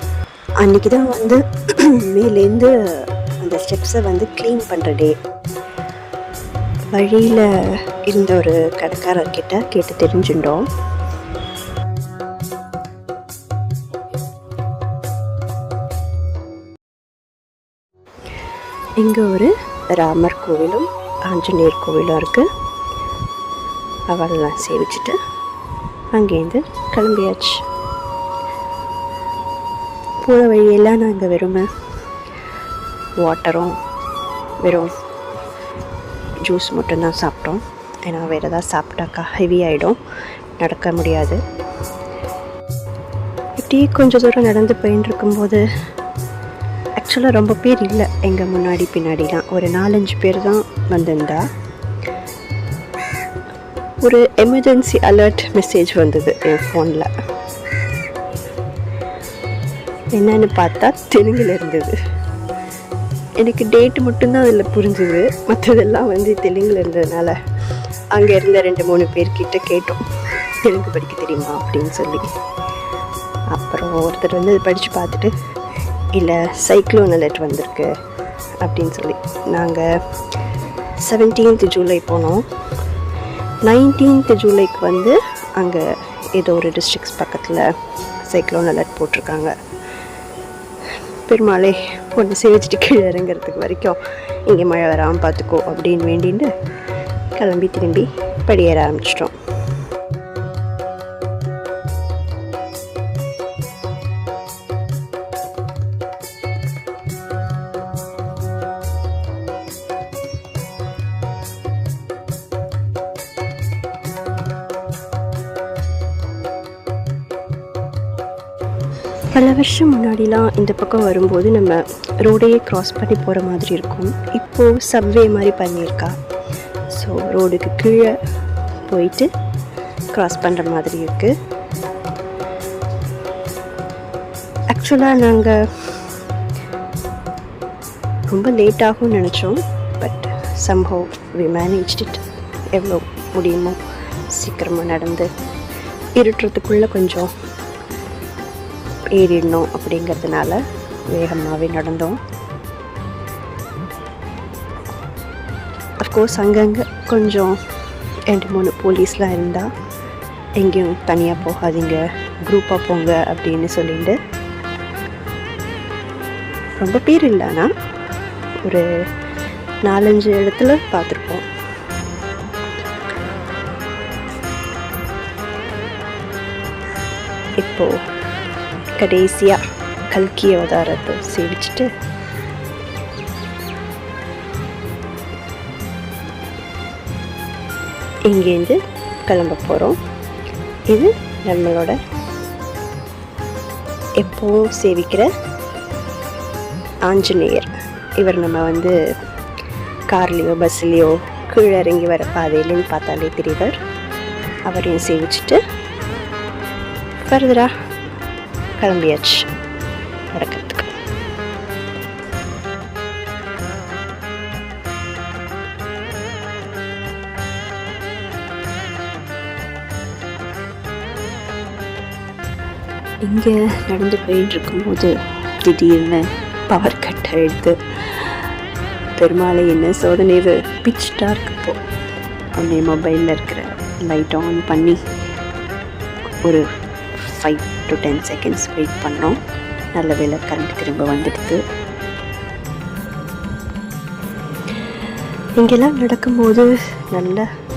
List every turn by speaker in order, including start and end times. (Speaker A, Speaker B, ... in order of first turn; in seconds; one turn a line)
Speaker A: 0.6-5.2
Speaker A: 6.9-10.7
Speaker A: 19.0-22.5
Speaker A: 24.1-25.2
Speaker A: 26.1-27.6
Speaker A: 30.2-31.7
Speaker A: 33.2-33.8
Speaker A: 34.6-34.9
Speaker A: 36.4-40.0
Speaker A: 40.6-41.4
Speaker A: 43.6-45.6
Speaker A: 47.0-51.5
Speaker A: 54.0-57.1
Speaker A: 60.1-61.9
Speaker A: 63.4-67.4
Speaker A: 68.1-72.3
Speaker A: 73.5-75.3
Speaker A: 76.1-77.9
Speaker A: 78.6-79.9
Speaker A: 81.0-82.5
Speaker A: 83.6-87.7
Speaker A: 88.3-89.5
Speaker A: 91.3-96.5
Speaker A: 97.3-99.3
Speaker A: 119.3-126.2
Speaker A: 126.9-128.2
Speaker A: 128.9-129.3
Speaker A: 130.1-131.3
Speaker A: 134.7-135.6
Speaker A: 138.3-145.3
Speaker A: 146.2-147.3
Speaker A: 149.1-152.2
Speaker A: 156.0-157.6
Speaker A: 158.3-159.7
Speaker A: 160.6-164.2
Speaker A: 166.8-167.7
Speaker A: 169.8-171.5
Speaker A: 177.6-177.9
Speaker A: 179.0-181.9
Speaker A: 188.3-190.0
Speaker A: 190.9-192.0
Speaker A: 194.2-195.3
Speaker A: 197.1-199.0
Speaker A: 200.1-203.8
Speaker A: 204.7-205.6
Speaker A: 207.2-207.7
Speaker A: 208.8-209.5
Speaker A: 210.3-210.9
Speaker A: 223.2-228.4
Speaker A: 229.2-231.8
Speaker A: 232.5-235.0
Speaker A: 236.4-239.4
Speaker A: 239.9-241.6
Speaker A: 245.6-247.5